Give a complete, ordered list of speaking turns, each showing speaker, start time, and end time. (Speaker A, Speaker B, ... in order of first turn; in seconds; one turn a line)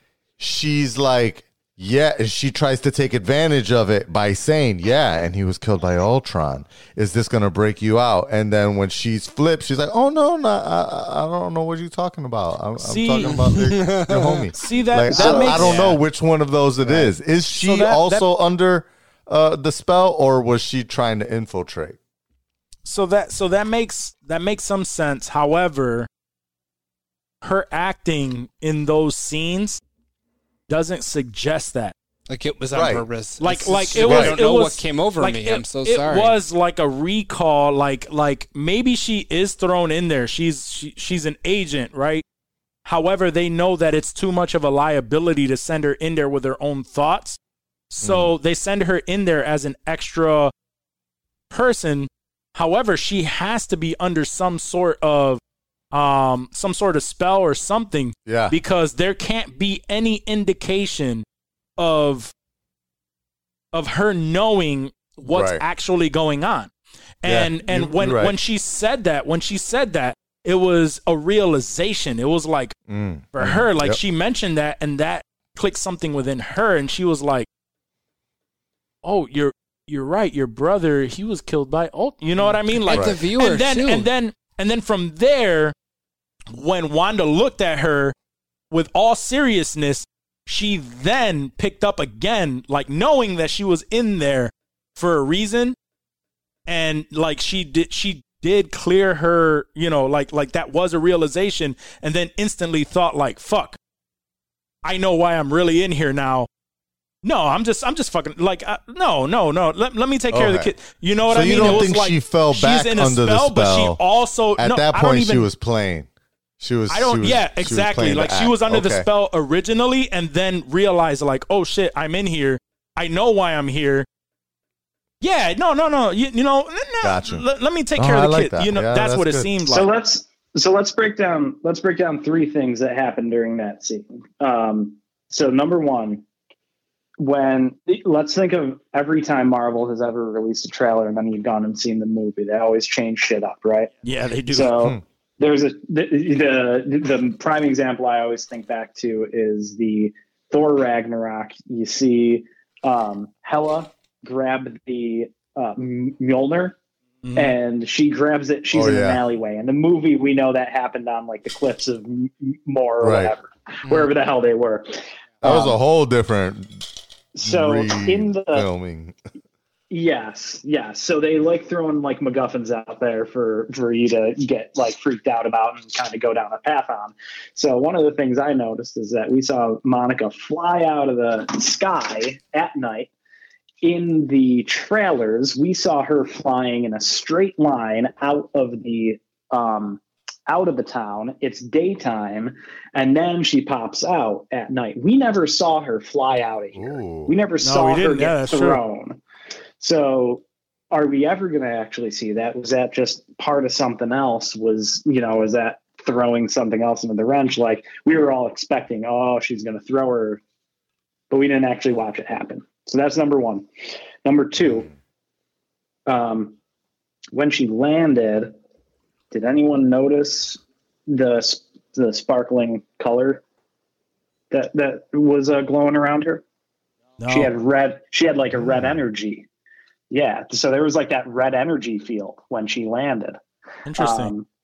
Speaker A: 0.4-22.0
Speaker B: 12.8-13.5
Speaker C: 13.3-14.5
Speaker B: 14.6-16.0
Speaker D: 15.1-15.7
Speaker C: 15.2-16.0
Speaker B: 16.9-18.3
Speaker B: 22.9-26.1
Speaker B: 27.4-29.8
Speaker B: 30.7-31.9
Speaker C: 32.3-36.4
Speaker A: 32.7-33.0
Speaker B: 33.4-42.2
Speaker A: 34.0-34.4
Speaker B: 42.9-47.4
Speaker B: 47.9-50.5
Speaker A: 48.0-48.3
Speaker B: 51.5-55.4
Speaker B: 55.9-61.2
Speaker A: 58.3-58.6
Speaker B: 61.8-62.3
Speaker B: 63.7-66.7
Speaker A: 65.3-65.6
Speaker B: 67.2-72.8
Speaker A: 67.2-68.4
Speaker A: 72.9-74.0
Speaker B: 73.3-77.5
Speaker B: 79.0-85.7
Speaker C: 82.4-84.1
Speaker A: 82.9-83.2
Speaker B: 86.5-88.1
Speaker B: 88.7-95.8
Speaker B: 96.7-103.8
Speaker B: 104.8-106.5
Speaker B: 107.2-115.5
Speaker A: 110.3-110.7
Speaker A: 111.3-114.0
Speaker A: 114.6-116.1
Speaker A: 116.6-119.1
Speaker B: 116.9-124.1
Speaker B: 125.2-129.9
Speaker A: 127.0-127.5
Speaker A: 128.0-129.5
Speaker D: 129.6-136.2
Speaker D: 137.2-143.9
Speaker B: 144.0-144.8
Speaker D: 144.5-156.8
Speaker B: 157.2-157.6
Speaker D: 157.3-165.8
Speaker A: 158.7-159.2
Speaker A: 163.0-163.3
Speaker A: 165.4-166.8
Speaker D: 167.3-168.7
Speaker A: 167.4-169.2
Speaker D: 169.9-183.1
Speaker D: 183.8-199.2
Speaker A: 196.8-197.3
Speaker B: 197.6-198.8
Speaker D: 199.8-210.4
Speaker D: 211.3-213.7
Speaker D: 214.2-214.9
Speaker D: 216.1-216.6
Speaker D: 217.3-218.5
Speaker D: 219.3-223.4
Speaker D: 224.5-226.4
Speaker B: 227.2-227.5
Speaker D: 227.3-229.5
Speaker A: 228.6-228.9
Speaker D: 230.1-233.4
Speaker B: 233.9-234.3
Speaker D: 234.0-234.5